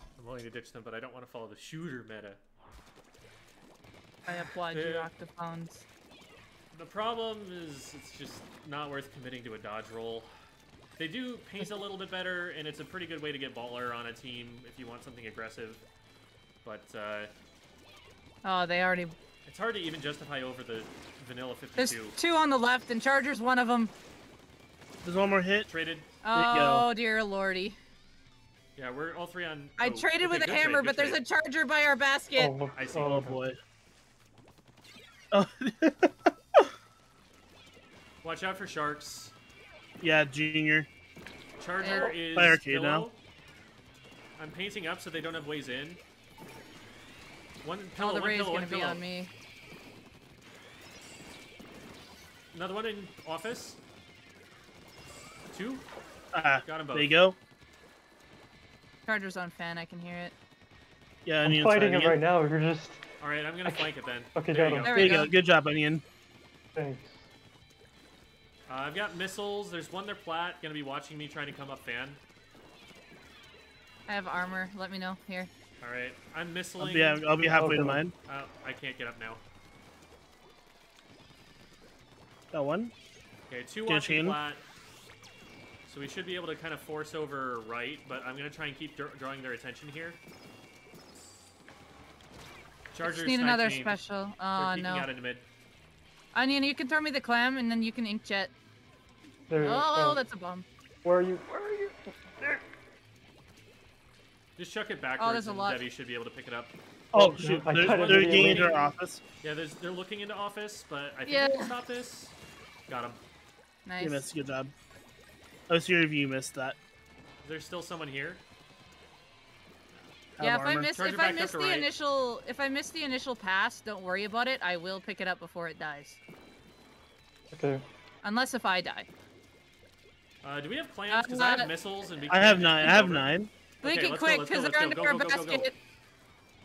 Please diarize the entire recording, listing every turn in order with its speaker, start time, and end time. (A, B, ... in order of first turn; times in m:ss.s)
0:00.2-0:02.4 A
0:04.2-0:05.1 A
0:04.3-0:05.8 B
0:06.7-0:10.3 A
0:11.0-0:15.8 A
0:16.6-0:17.3 A
0:18.4-0:19.2 B
0:19.5-0:22.2 A
0:21.8-0:23.9 B
0:25.0-0:25.7 C
0:25.7-0:26.1 A
0:26.2-0:27.8 B
0:26.3-0:26.9 C
0:28.8-0:31.2 A
0:29.8-0:32.5 B
0:32.4-0:33.4 D
0:32.8-0:33.3 A
0:32.9-0:33.6 C
0:35.3-0:36.7 C
0:38.2-0:39.3 A
0:40.0-0:40.9 C
0:41.6-0:43.2 A
0:41.8-0:42.2 B
0:41.9-0:43.1 C
0:44.4-0:46.0 A
0:47.6-0:49.0 A
0:48.0-0:49.3 B
0:52.5-0:53.8 A
0:55.5-0:55.8 A
0:56.3-0:57.4 C
0:56.6-0:57.1 A
0:59.1-1:00.3 B
1:01.2-1:02.2 C
1:01.4-1:03.0 D
1:03.2-1:05.3 A
1:03.6-1:04.9 D
1:04.8-1:05.3 B
1:04.9-1:06.0 C
1:06.8-1:07.2 D
1:08.7-1:12.2 A
1:14.1-1:15.5 B
1:15.8-1:17.7 A
1:16.8-1:18.1 C
1:17.6-1:18.0 D
1:18.2-1:19.4 A
1:22.5-1:22.9 C
1:23.5-1:24.6 A
1:23.9-1:24.4 C
1:25.9-1:30.2 A
1:32.9-1:34.0 A
1:33.0-1:35.1 B
1:34.6-1:35.4 A
1:36.3-1:38.5 B
1:39.5-1:40.2 D
1:39.6-1:40.7 B
1:41.0-1:42.6 D
1:44.6-1:46.7 A
1:45.2-1:45.8 B
1:47.1-1:49.2 C
1:47.2-1:48.7 D
1:47.3-1:48.9 A
1:49.4-1:52.4 A
1:51.3-1:51.7 B
1:52.9-1:53.2 A
1:53.9-1:54.2 B
1:54.0-1:54.7 C
1:55.7-1:56.8 C
1:57.4-1:58.4 A
2:00.4-2:00.9 C
2:00.4-2:06.2 B
2:01.0-2:01.9 A
2:07.5-2:07.8 D
2:08.2-2:09.1 B
2:10.4-2:13.3 A
2:11.1-2:11.7 B
2:12.3-2:13.5 C
2:13.8-2:15.7 A
2:13.8-2:15.7 B